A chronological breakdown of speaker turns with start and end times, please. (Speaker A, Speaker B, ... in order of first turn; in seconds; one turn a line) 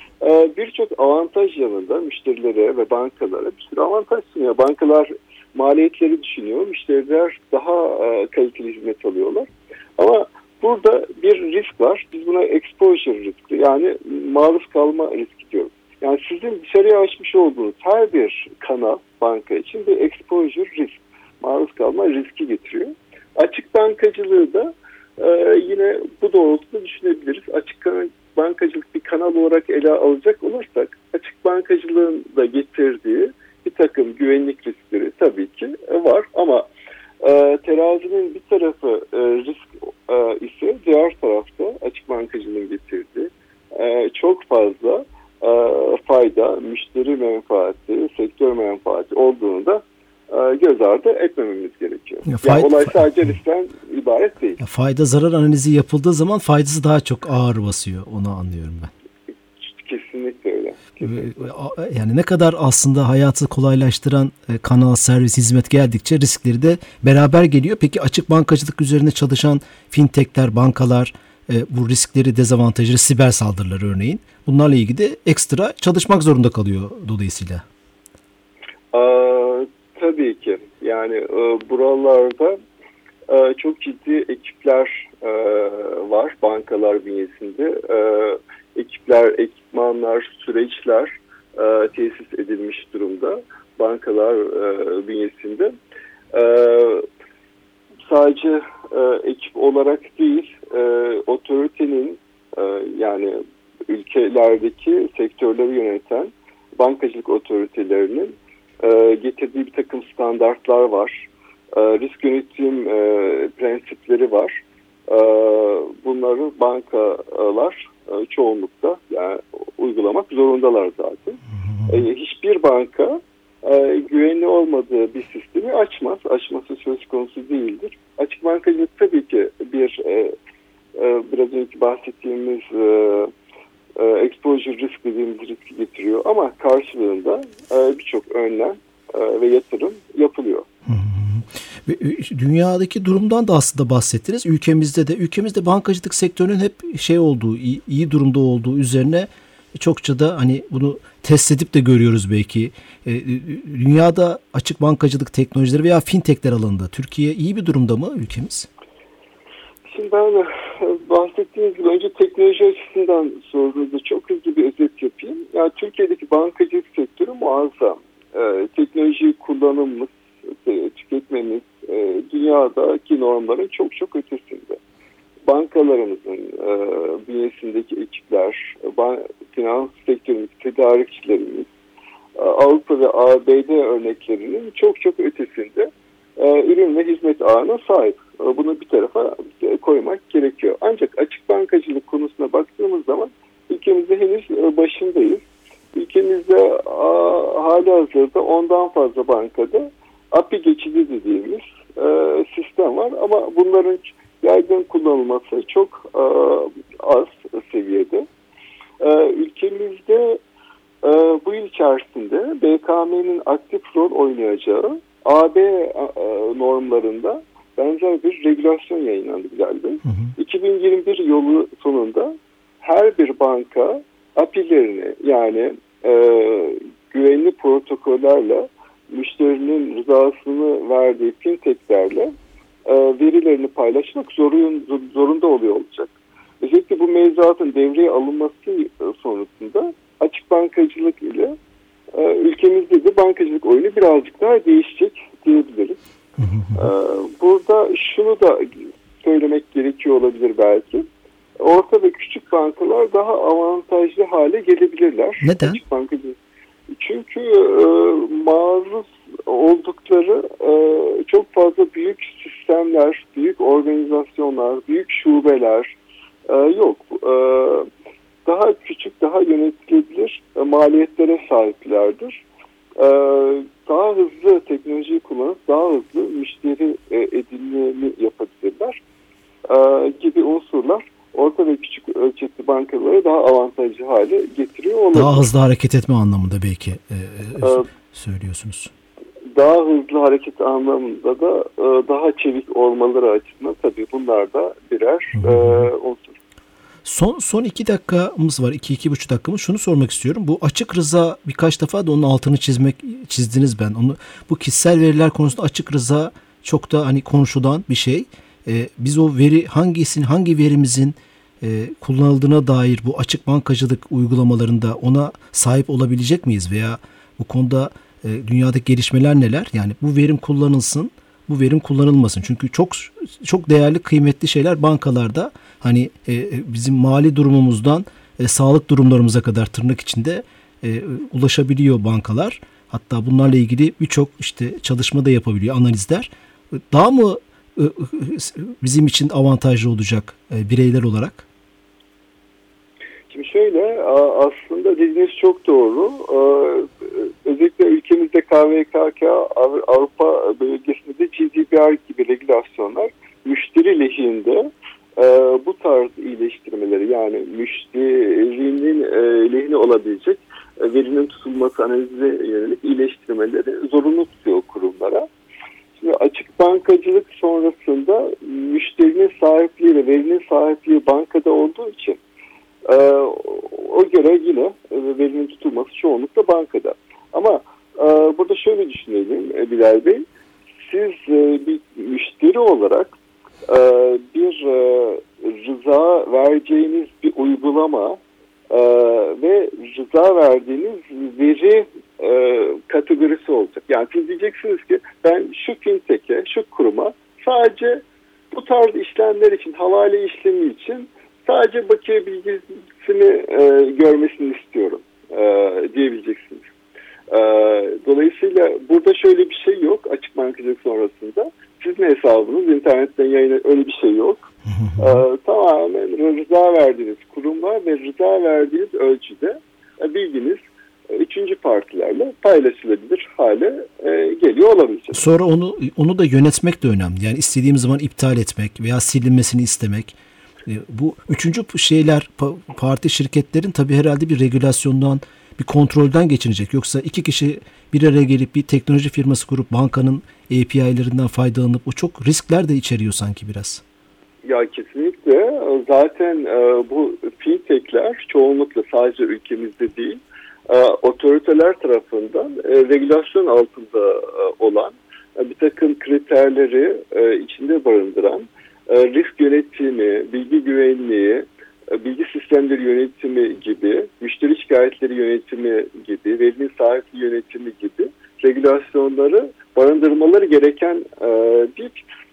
Speaker A: 0.2-36.7
Speaker A: 37.2-54.6
Speaker B: 52.3-53.3
Speaker B: 54.6-58.9
Speaker A: 59.7-61.5
Speaker B: 61.0-77.6
Speaker A: 78.9-82.6
Speaker A: 83.3-95.7
Speaker A: 96.3-97.1
Speaker A: 98.1-130.3
Speaker A: 131.0-133.3
Speaker A: 134.0-140.7
Speaker B: 140.9-158.7
Speaker A: 159.9-174.8
Speaker A: 175.5-181.7
Speaker A: 182.4-195.4
Speaker A: 195.9-208.3
Speaker A: 209.0-210.4
Speaker A: 211.0-232.3
Speaker B: 220.1-220.3
Speaker A: 232.9-241.6
Speaker A: 242.1-246.0
Speaker B: 246.4-246.8
Speaker A: 246.8-251.1
Speaker A: 251.6-256.4
Speaker B: 255.4-255.8
Speaker A: 256.9-265.9
Speaker A: 266.5-267.9
Speaker A: 268.5-272.4
Speaker A: 273.0-279.0
Speaker A: 279.7-285.4
Speaker B: 285.1-288.9
Speaker A: 287.6-287.9
Speaker A: 289.5-296.4
Speaker B: 295.4-295.9
Speaker B: 297.1-341.4
Speaker A: 343.3-365.3
Speaker A: 366.0-372.2
Speaker A: 372.9-380.2
Speaker A: 380.8-383.1
Speaker A: 383.7-388.2
Speaker A: 388.7-406.6
Speaker A: 407.3-425.2
Speaker B: 414.7-415.2
Speaker B: 425.1-443.8
Speaker A: 444.4-472.0